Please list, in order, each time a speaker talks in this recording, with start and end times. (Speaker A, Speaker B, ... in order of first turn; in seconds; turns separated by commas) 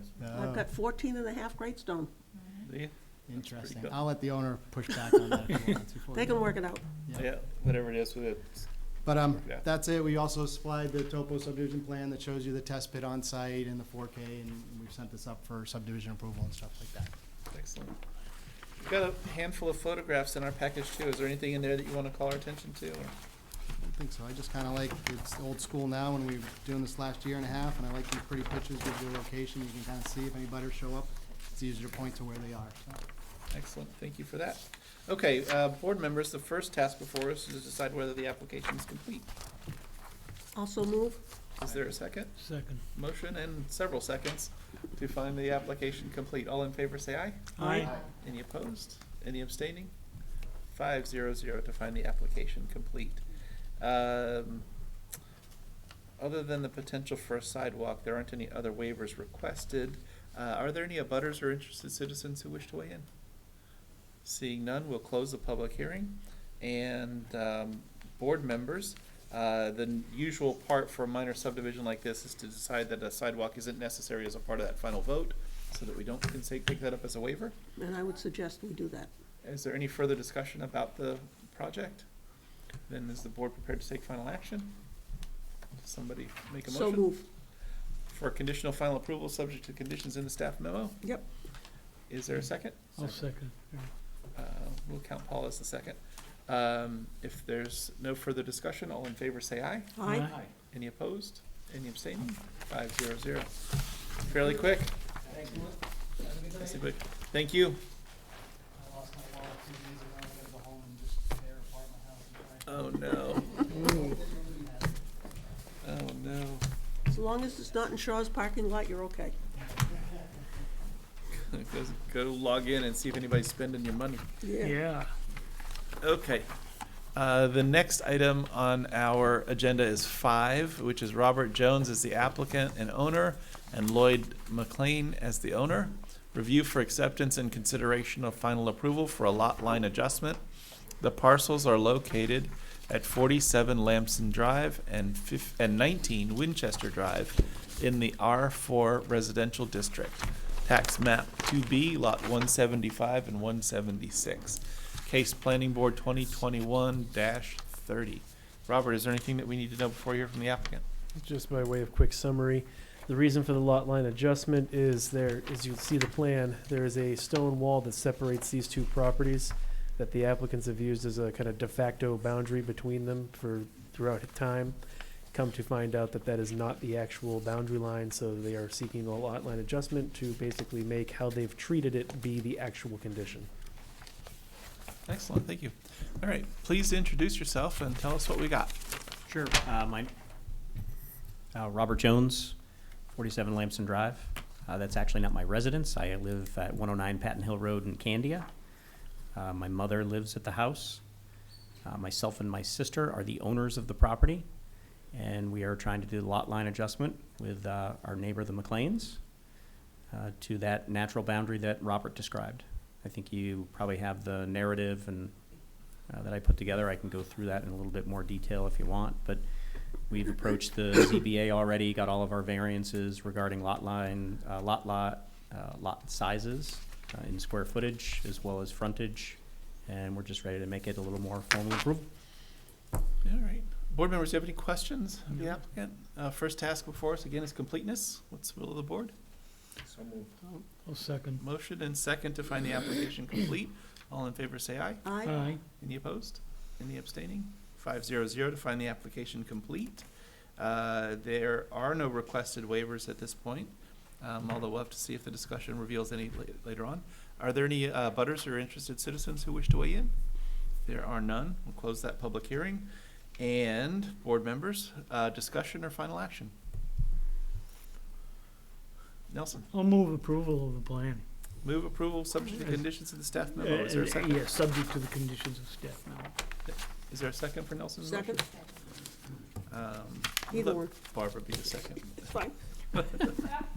Speaker A: 0.2-0.6, Speaker B: 0.3-2.1, Speaker C: 2.6-3.9, Speaker A: 3.3-6.5, Speaker B: 6.1-6.9, Speaker C: 7.2-9.6, Speaker A: 9.0-17.1, Speaker C: 17.5-18.0, Speaker C: 18.8-23.1, Speaker A: 23.8-33.0, Speaker C: 33.5-39.3, Speaker B: 40.5-41.2, Speaker C: 41.6-42.4, Speaker D: 42.4-42.8, Speaker C: 42.9-49.9, Speaker D: 47.6-48.0, Speaker B: 47.6-47.9, Speaker C: 50.7-53.2, Speaker C: 53.8-54.6, Speaker C: 56.2-63.0, Speaker C: 64.2-77.5, Speaker B: 77.8-79.1, Speaker C: 79.4-82.1, Speaker C: 82.9-84.7, Speaker C: 85.8-87.2, Speaker B: 86.7-87.2, Speaker C: 88.1-91.0, Speaker C: 92.1-93.3, Speaker D: 93.0-93.9, Speaker C: 94.3-100.0, Speaker B: 100.0-100.3, Speaker D: 100.0-100.3, Speaker C: 100.7-103.5, Speaker C: 104.2-105.0, Speaker A: 105.3-105.7, Speaker A: 106.2-106.8, Speaker C: 106.5-107.8, Speaker A: 108.8-114.9, Speaker C: 112.7-113.5, Speaker C: 115.8-116.7, Speaker B: 117.1-119.3, Speaker C: 121.4-124.2, Speaker B: 124.4-124.8, Speaker D: 124.6-125.1, Speaker C: 126.0-126.5, Speaker C: 127.1-140.4, Speaker C: 141.0-160.8, Speaker E: 161.1-174.8, Speaker E: 175.3-183.5, Speaker C: 185.1-188.8, Speaker F: 189.3-190.1, Speaker F: 191.5-192.5, Speaker F: 193.1-198.5, Speaker F: 199.3-201.0, Speaker F: 201.8-204.4, Speaker F: 205.1-209.2, Speaker F: 210.1-215.3, Speaker F: 216.1-219.4, Speaker F: 220.1-232.1, Speaker C: 233.2-239.1, Speaker D: 240.4-241.4, Speaker C: 241.4-245.1, Speaker B: 245.0-245.5, Speaker D: 245.2-245.6, Speaker C: 245.7-250.1, Speaker C: 250.6-260.1, Speaker C: 260.9-266.5, Speaker C: 269.3-269.7, Speaker D: 269.7-271.2, Speaker C: 271.6-274.5, Speaker D: 272.5-272.9, Speaker D: 273.5-276.3, Speaker C: 276.7-278.4, Speaker B: 278.0-278.4, Speaker C: 279.7-282.3, Speaker B: 280.5-280.9, Speaker B: 282.2-282.5, Speaker C: 282.9-283.4